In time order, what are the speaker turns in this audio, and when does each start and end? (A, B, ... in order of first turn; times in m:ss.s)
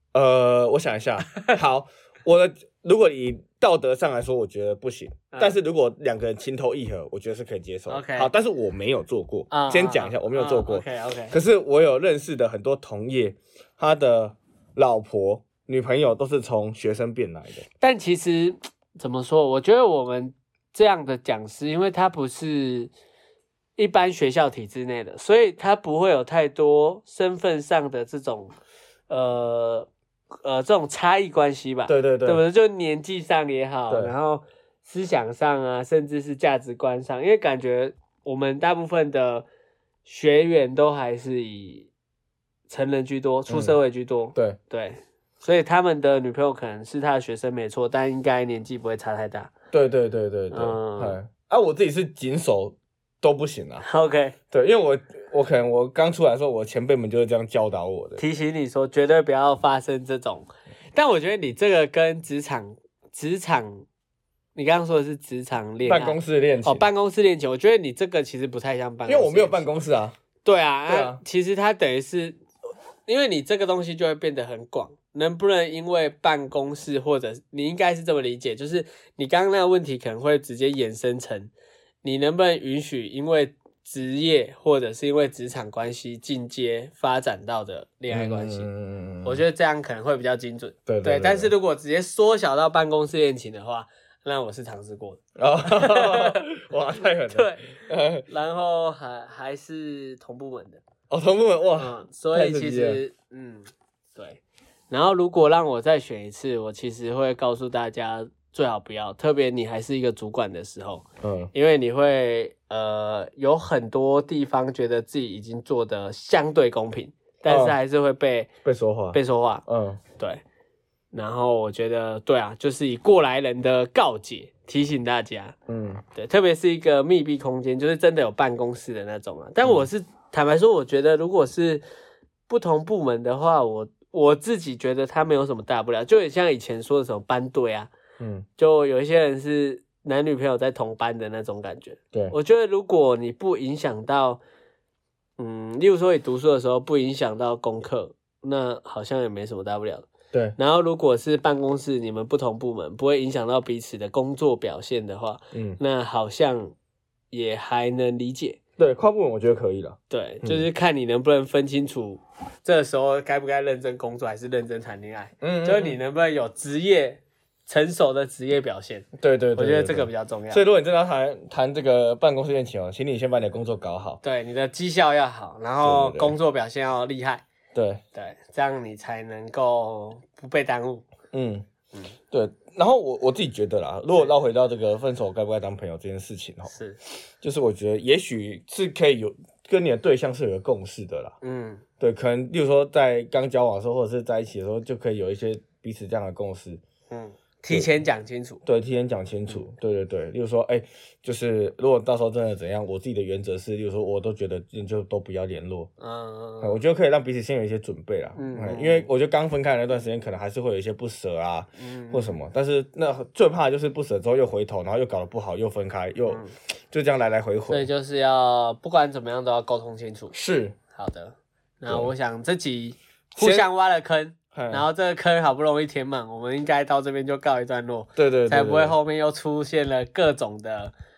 0:00.1-0:17.6 A
0:05.3-0:05.6 B
0:07.9-0:08.3 B
0:09.5-0:11.4 B
0:17.8-0:22.9 B
0:23.8-0:28.6 B
0:29.1-0:29.9 B
0:30.4-0:39.5 B
0:31.9-0:32.4 A
0:33.9-0:34.1 A
0:40.0-0:41.9 B
0:42.7-0:49.5 B
0:43.5-0:43.8 A
0:49.7-0:53.8 A
0:50.5-0:51.2 B
0:53.8-0:54.4 B
0:54.5-0:58.2 A
0:58.2-1:03.9 B
1:04.6-1:09.7 B
1:05.8-1:06.9 A
1:09.1-1:10.2 A
1:10.4-1:12.4 B
1:10.9-1:11.2 A
1:13.1-1:21.5 B
1:22.0-1:28.7 B
1:28.1-1:29.4 A
1:29.2-1:36.5 B
1:30.9-1:31.5 A
1:35.4-1:38.3 A
1:37.2-1:40.8 B
1:41.1-1:43.0 A
1:41.8-1:58.5 B
1:51.2-1:51.5 A
1:57.5-1:57.8 A
1:58.6-2:00.0 A
1:59.1-1:59.6 B
2:01.1-2:05.6 B
2:05.7-2:06.0 A
2:06.1-2:11.8 B
2:09.6-2:09.9 A
2:12.5-2:17.9 B
2:18.2-2:18.5 A
2:18.6-2:24.4 B
2:25.4-2:36.7 B
2:35.5-2:35.8 A
2:37.3-2:38.6 B
2:38.8-2:40.7 A
2:40.1-2:50.6 B
2:45.4-2:46.0 A
2:49.2-2:54.2 A
2:54.2-2:57.4 B
2:55.8-2:56.4 A
2:57.8-2:58.0 A
2:58.1-3:01.1 B
3:01.3-3:01.7 A
3:02.3-3:06.7 A
3:06.7-3:07.0 B
3:07.4-3:11.4 A
3:11.4-3:11.8 B
3:12.0-3:16.8 A
3:17.1-3:18.6 B
3:18.6-3:25.9 A
3:26.0-3:26.8 B
3:26.6-3:37.9 A
3:28.4-3:29.1 B
3:31.8-3:32.4 B
3:36.3-3:36.5 B
3:37.7-3:40.3 B
3:40.3-3:40.8 A
3:40.9-3:50.9 B
3:41.9-3:42.1 A
3:43.4-3:43.7 A
3:44.5-3:44.9 A
3:48.2-3:49.0 A